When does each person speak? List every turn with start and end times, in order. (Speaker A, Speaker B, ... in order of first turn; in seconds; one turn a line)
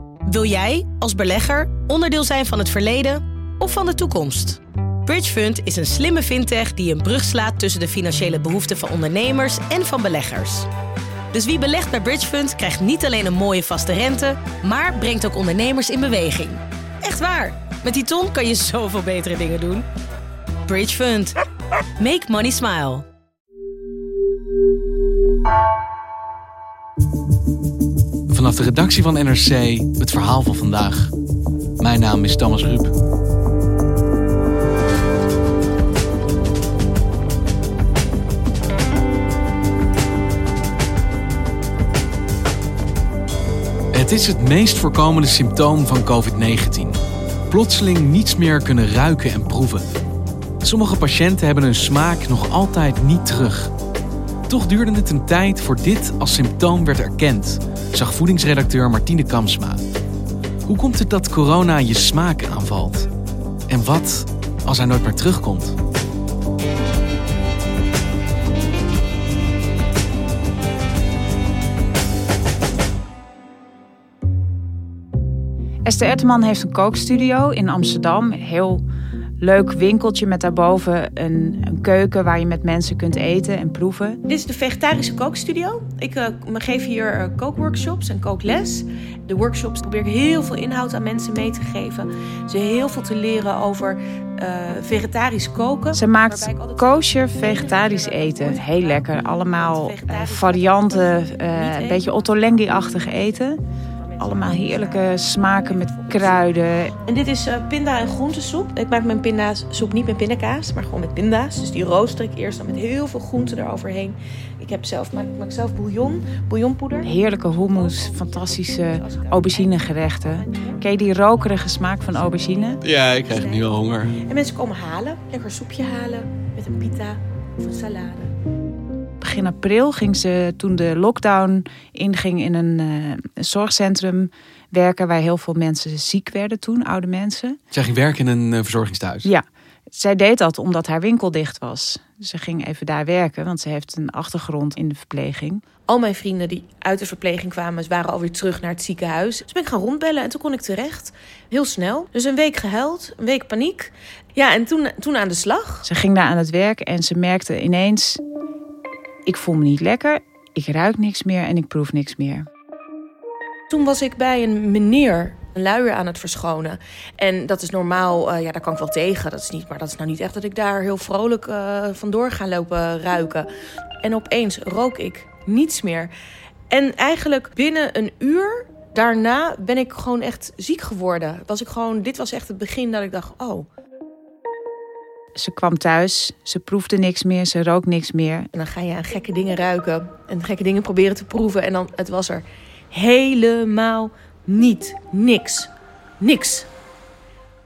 Speaker A: 0.2-10.7
Speaker A: 11.3-19.9
Speaker A: 20.7-21.3
Speaker A: 22.0-23.1
Speaker B: 28.3-31.1
Speaker B: 31.8-32.9
Speaker B: 43.9-47.0
Speaker B: 47.5-49.9
Speaker B: 50.6-53.7
Speaker B: 54.5-59.8
Speaker B: 60.6-63.1
Speaker B: 63.7-65.8
Speaker C: 75.8-78.8
Speaker C: 79.4-84.2
Speaker D: 84.3-103.4
Speaker C: 95.9-103.6
Speaker D: 104.0-106.5
Speaker C: 104.2-106.9
Speaker D: 107.1-121.1
Speaker C: 117.0-122.8
Speaker D: 121.7-123.7
Speaker B: 122.8-124.2
Speaker D: 124.3-128.3
Speaker C: 129.2-137.6
Speaker B: 137.7-139.3
Speaker C: 139.2-145.6
Speaker D: 145.9-155.8
Speaker C: 155.8-158.2
Speaker C: 159.2-162.5
Speaker D: 163.7-173.4
Speaker D: 174.0-176.1
Speaker D: 176.7-183.6
Speaker C: 185.3-188.5
Speaker D: 188.5-195.7
Speaker D: 196.2-196.7